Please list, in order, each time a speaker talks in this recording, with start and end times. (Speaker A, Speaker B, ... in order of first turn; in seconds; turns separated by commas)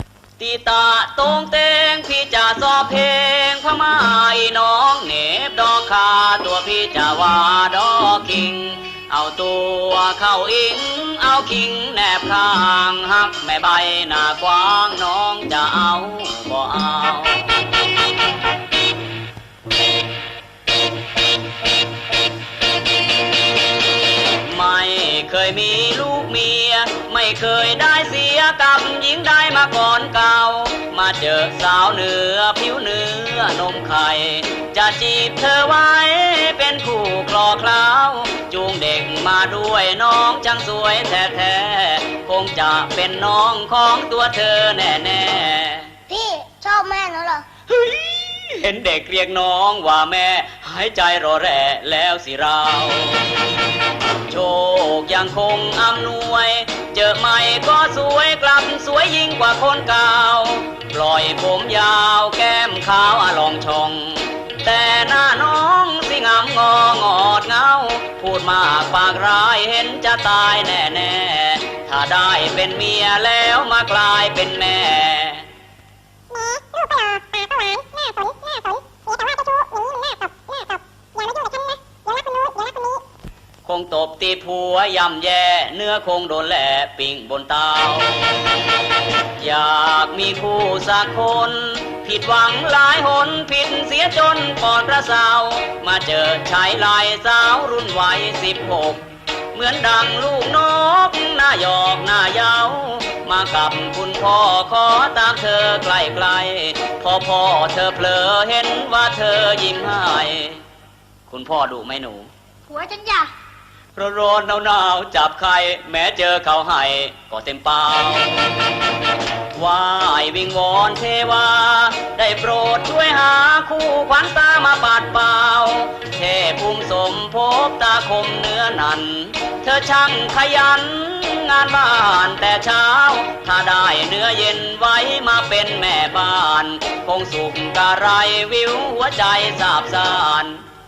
Speaker A: 0.4-17.7, Speaker A: 24.4-46.0, Speaker B: 46.1-47.4, Speaker A: 47.7-53.4, Speaker A: 54.2-75.5, Speaker B: 76.3-83.0, Speaker A: 83.6-88.4, Speaker A: 89.3-110.6, Speaker A: 111.3-112.3, Speaker B: 112.7-113.3, Speaker A: 113.9-118.5, Speaker A: 119.5-140.6